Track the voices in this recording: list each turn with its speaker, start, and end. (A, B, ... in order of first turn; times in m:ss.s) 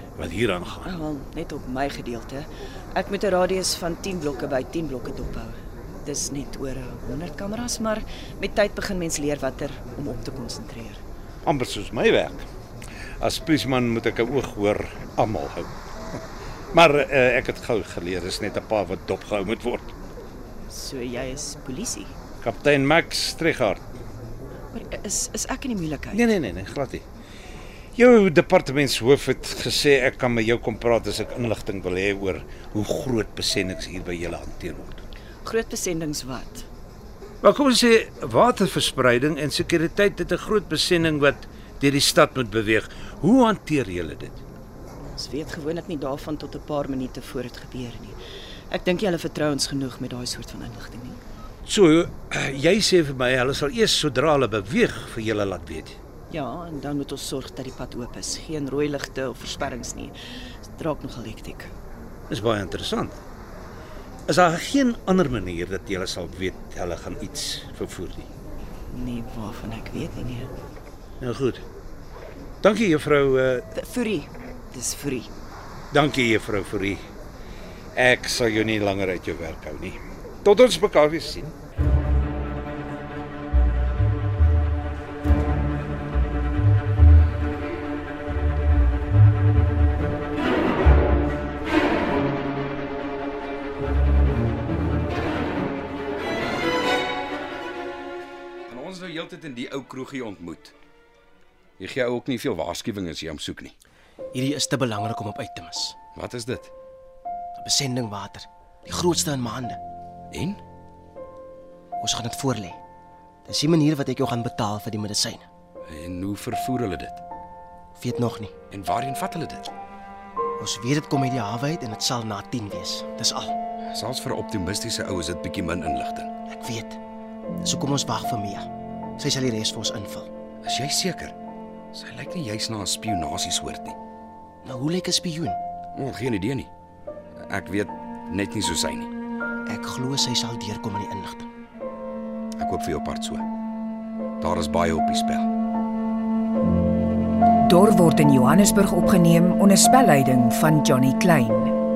0:00.2-0:00.8 A
0:00.6-0:11.0 B
0:11.4-0:12.4 A
0:13.2-0:15.7 A
0:16.7-0:19.9 A
0:20.7-0:22.1 B
0:22.4-0:23.8 A
0:24.7-0:26.3 B
0:26.1-0:27.0 A
0:28.0-0:35.0 A
0:35.4-0:36.6 B
0:37.4-0:44.4 A
0:45.1-0:48.2 B
0:48.7-0:51.2 B
0:51.6-0:56.0 A
0:56.3-1:00.2 B
1:00.7-1:01.7 B
1:02.3-1:03.2 A
1:04.3-1:08.3 A
1:08.9-1:10.5 B
1:11.2-1:11.6 A
1:12.6-1:13.6 A
1:13.7-1:15.3 B
1:15.9-1:17.0 A
1:17.9-1:21.5 A
1:38.7-1:40.7 C
1:41.8-1:43.7 C
1:44.3-1:46.0 D
1:46.1-1:46.7 C
1:47.6-1:49.8 D
1:50.3-1:50.6 C
1:52.0-1:52.8 D
1:53.4-1:55.4 D
1:55.9-1:57.2 C
1:58.0-1:58.5 D
1:58.7-1:59.7 C
2:00.6-2:03.6 D
2:03.9-2:06.3 C
2:06.5-2:07.0 D
2:07.6-2:10.3 D
2:10.6-2:11.3 C
2:11.9-2:14.0 C
2:14.6-2:15.6 D
2:15.9-2:16.7 C
2:17.4-2:19.1 C
2:19.7-2:21.5 D
2:22.6-2:23.4 C
2:24.4-2:25.5 C
2:27.6-2:31.7 E